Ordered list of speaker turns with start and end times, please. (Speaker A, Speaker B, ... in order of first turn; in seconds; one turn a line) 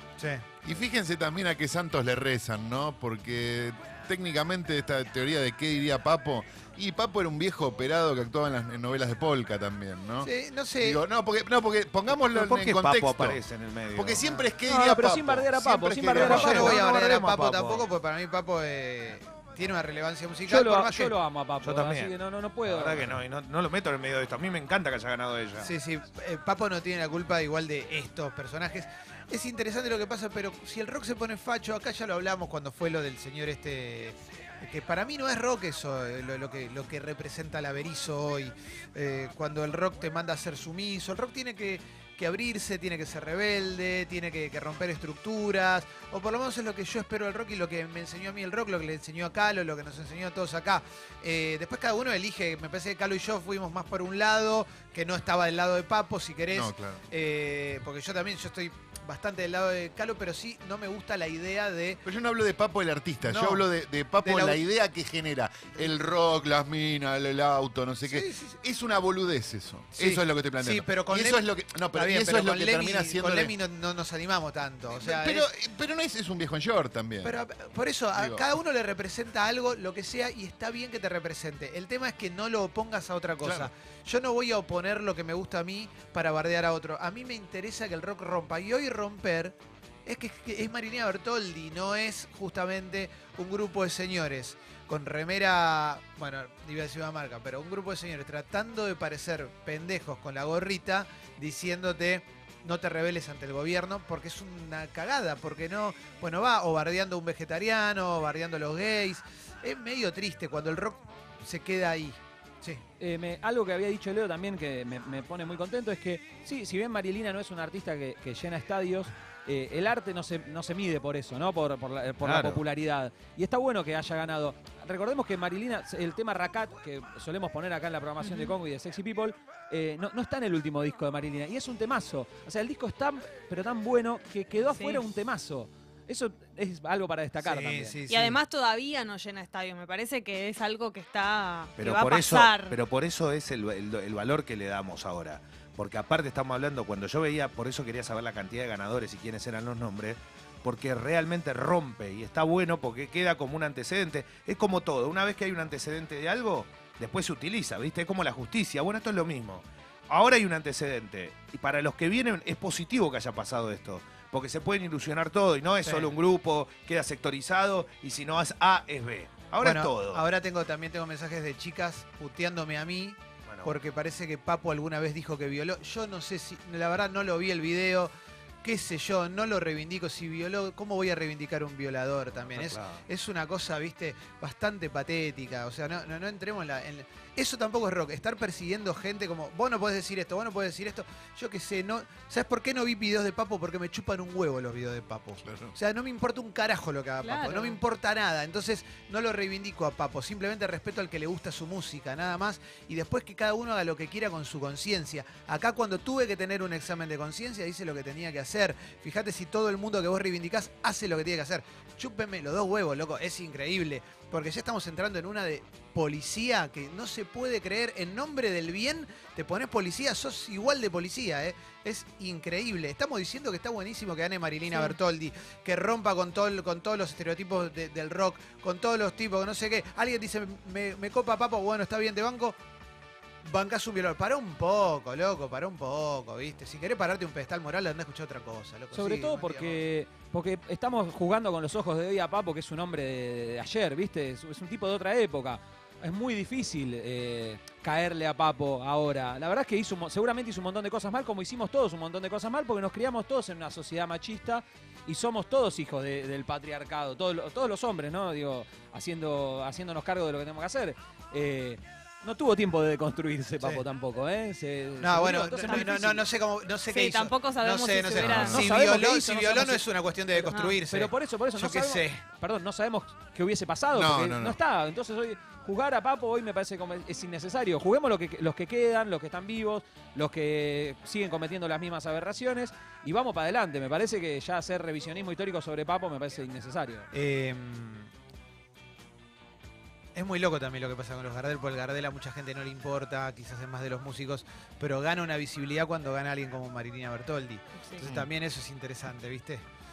Speaker A: 0.2-0.5
Speaker B: 0.6-13.4
Speaker A: 10.2-11.0
Speaker C: 12.3-14.2
Speaker B: 13.9-16.5
Speaker D: 14.7-16.8
Speaker C: 16.2-17.9
Speaker A: 16.2-21.2
Speaker D: 20.5-23.2
Speaker C: 21.6-22.1
Speaker C: 22.6-25.8
Speaker A: 25.6-62.0
Speaker B: 56.5-57.0
Speaker B: 62.0-73.5
Speaker A: 63.2-63.7
Speaker A: 64.2-64.6
Speaker A: 68.1-68.6
Speaker A: 70.0-75.5
Speaker B: 74.9-77.4
Speaker A: 77.2-112.8
Speaker B: 78.2-78.5
Speaker B: 83.4-83.7
Speaker D: 113.0-138.0
Speaker C: 122.2-122.6
Speaker E: 128.2-128.5
Speaker E: 134.6-135.0
Speaker A: 137.4-138.4
Speaker E: 138.1-142.8
Speaker C: 141.8-170.2
Speaker A: 165.8-166.2
Speaker A: 169.6-232.6
Speaker C: 173.5-173.8
Speaker C: 182.4-183.1
Speaker B: 195.4-195.8
Speaker E: 197.2-197.8
Speaker E: 224.7-225.0
Speaker A: 233.4-239.8
Speaker D: 238.9-266.2
Speaker A: 265.0-272.2
Speaker E: 265.6-265.9
Speaker E: 266.9-268.7
Speaker B: 268.2-268.6
Speaker D: 268.4-287.1
Speaker E: 270.5-270.8
Speaker B: 273.9-274.6
Speaker A: 287.1-288.1
Speaker A: 290.1-299.6
Speaker C: 298.0-298.3